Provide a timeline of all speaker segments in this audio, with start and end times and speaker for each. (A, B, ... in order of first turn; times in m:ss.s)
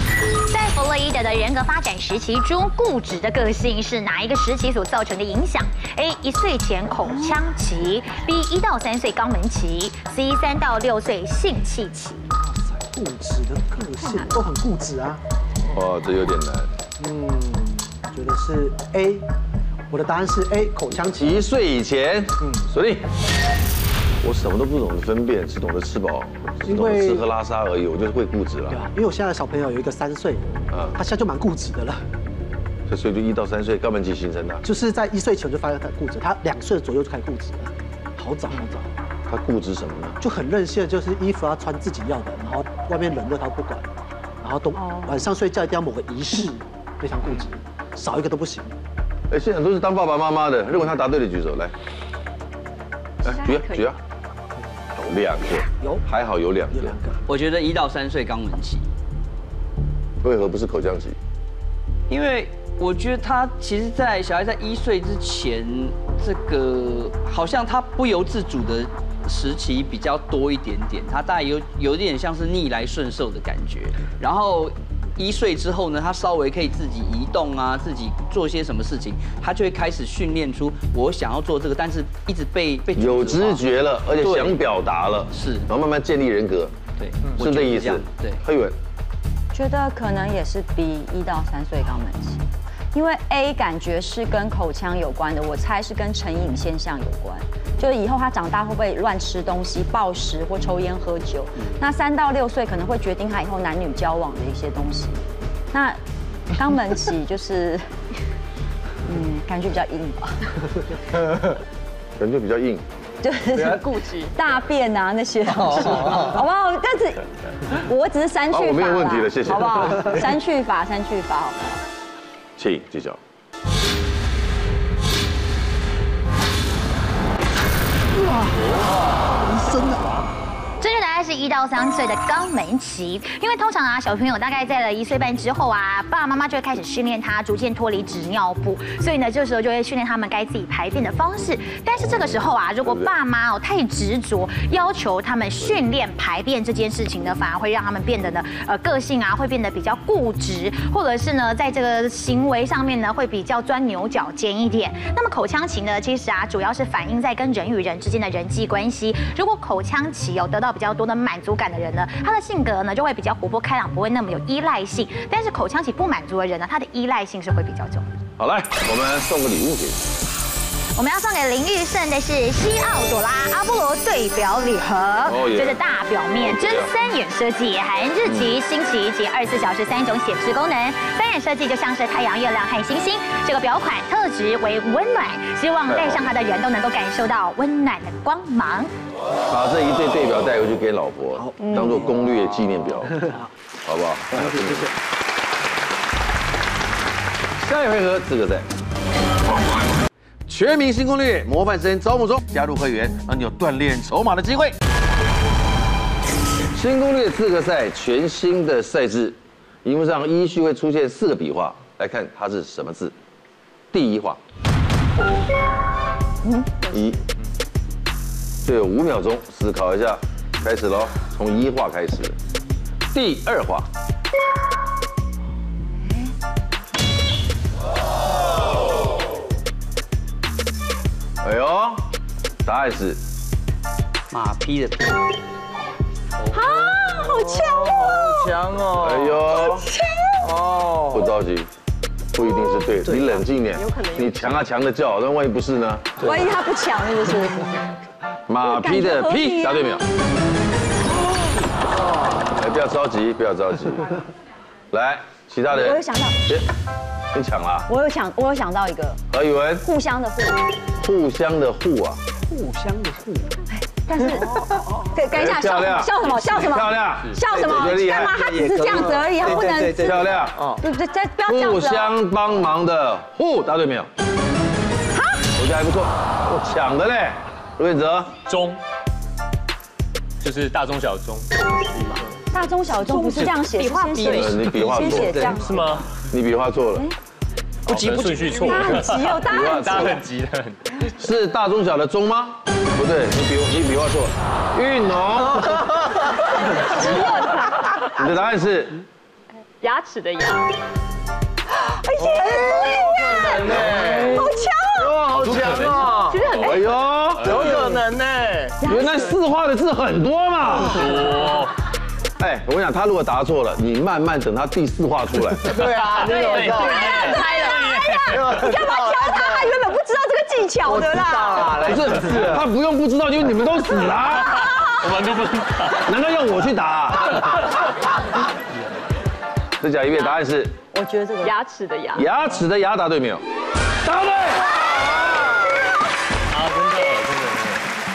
0:00.5-0:12.2 A
0:12.4-0:15.2 B
0:15.7-0:16.7 C
0:17.0-0:19.2 B
0:19.9-0:21.4 B
0:21.1-0:23.1 C
0:24.2-0:28.8 C
0:26.6-0:27.2 B
0:28.7-0:32.0 B
0:30.7-0:31.0 C
0:32.9-0:34.6 C
0:34.6-0:38.9 B
0:39.3-0:40.2 C
0:40.2-0:43.9 B
0:44.4-0:48.7 B
0:44.8-0:45.2 D
0:49.3-0:51.7 C
0:53.2-0:54.0 C
0:53.2-0:53.9 E
0:55.0-0:57.0 C
0:56.7-0:57.2 B
0:57.3-0:58.8 F
1:00.2-1:01.2 C
1:02.1-1:23.6 F
1:23.0-1:26.7 C
1:24.2-1:24.6 F
1:25.3-1:25.7 F
1:27.0-1:28.4 F
1:27.3-1:28.8 C
1:29.5-1:32.4 D
1:32.9-1:45.2 D
1:45.7-1:46.0 D
1:46.5-1:47.8 D
1:49.0-1:50.6 D
1:52.2-1:52.8 C
1:53.2-2:01.8 D
1:53.6-1:54.4 E
1:58.5-2:00.2 C
2:02.6-2:03.2 C
2:08.2-2:08.8 B
2:09.4-2:10.1 B
2:10.8-2:48.0 A
2:22.8-2:23.1 C
2:48.4-2:50.1 C
2:51.0-3:08.9 A
2:55.2-2:55.8 C
2:56.4-2:56.9 C
2:58.2-2:58.5 C
3:05.9-3:06.3 C
3:09.5-3:13.2 C
3:11.3-3:11.9 B
3:11.7-3:12.0 D
3:13.1-3:13.5 B
3:13.8-3:14.9 C
3:14.4-3:14.9 B
3:17.6-3:18.7 C
3:20.5-3:24.8 C
3:26.7-3:33.1 C
3:33.9-3:34.4 C
3:36.4-3:36.8 D
3:36.9-3:37.2 C
3:38.6-3:42.4 C
3:43.1-3:43.9 C
3:46.0-3:46.3 D
3:51.4-3:52.1 C
3:52.6-3:53.2 C
3:54.3-3:55.2 F
3:56.5-3:58.6 D
3:57.2-3:59.3 G
3:58.9-3:59.9 C
3:59.5-4:00.6 D
4:00.4-4:01.2 G
4:01.1-4:01.7 C
4:02.3-4:06.2 C
4:03.7-4:04.7 E
4:06.2-4:07.8 D
4:08.5-4:10.0 C
4:08.6-4:10.0 D
4:12.5-4:14.2 C
4:14.9-4:16.7 C
4:15.7-4:16.4 D
4:17.3-4:17.9 C
4:17.9-4:19.2 D
4:19.3-4:19.8 C
4:19.8-4:20.7 D
4:21.0-4:22.2 C
4:23.7-4:32.1 D
4:25.3-4:28.4 C
4:27.4-4:30.3 F
4:30.0-4:30.7 C
4:31.4-4:34.1 C
4:35.1-4:35.4 D
4:35.5-4:38.4 C
4:38.4-4:38.8 H
4:40.4-4:42.2 H
4:42.5-4:46.0 D
4:43.0-4:44.6 E
4:44.3-4:45.5 C
4:44.6-4:45.8 F
4:45.6-4:46.0 H
4:46.3-4:47.1 C
4:47.8-4:49.2 F
4:47.9-4:50.8 H
4:48.6-4:50.2 D
4:49.4-4:50.2 C
4:51.2-4:56.0 C
4:56.8-4:58.1 D
4:58.0-4:59.0 C
4:59.8-5:00.7 E
5:01.7-5:05.2 D
5:02.4-5:04.2 G
5:03.6-5:04.2 C
5:05.0-5:08.0 C
5:05.4-5:06.3 G
5:05.4-5:06.6 H
5:06.2-5:07.0 E
5:07.3-5:07.7 H
5:07.5-5:08.7 G
5:08.8-5:09.3 D
5:08.8-5:11.2 C
5:10.8-5:11.7 H
5:12.4-5:16.0 C
5:15.7-5:17.2 G
5:16.0-5:18.4 H
5:16.3-5:16.6 E
5:16.7-5:21.9 D
5:18.4-5:19.4 G
5:20.9-5:22.5 G
5:21.7-5:24.8 C
5:24.5-5:25.1 D
5:25.0-5:26.0 H
5:25.9-5:27.7 C
5:29.8-5:30.8 C
5:30.9-5:31.5 D
5:31.4-5:32.3 E
5:32.1-5:33.4 C
5:34.0-5:35.5 C
5:36.5-5:37.8 H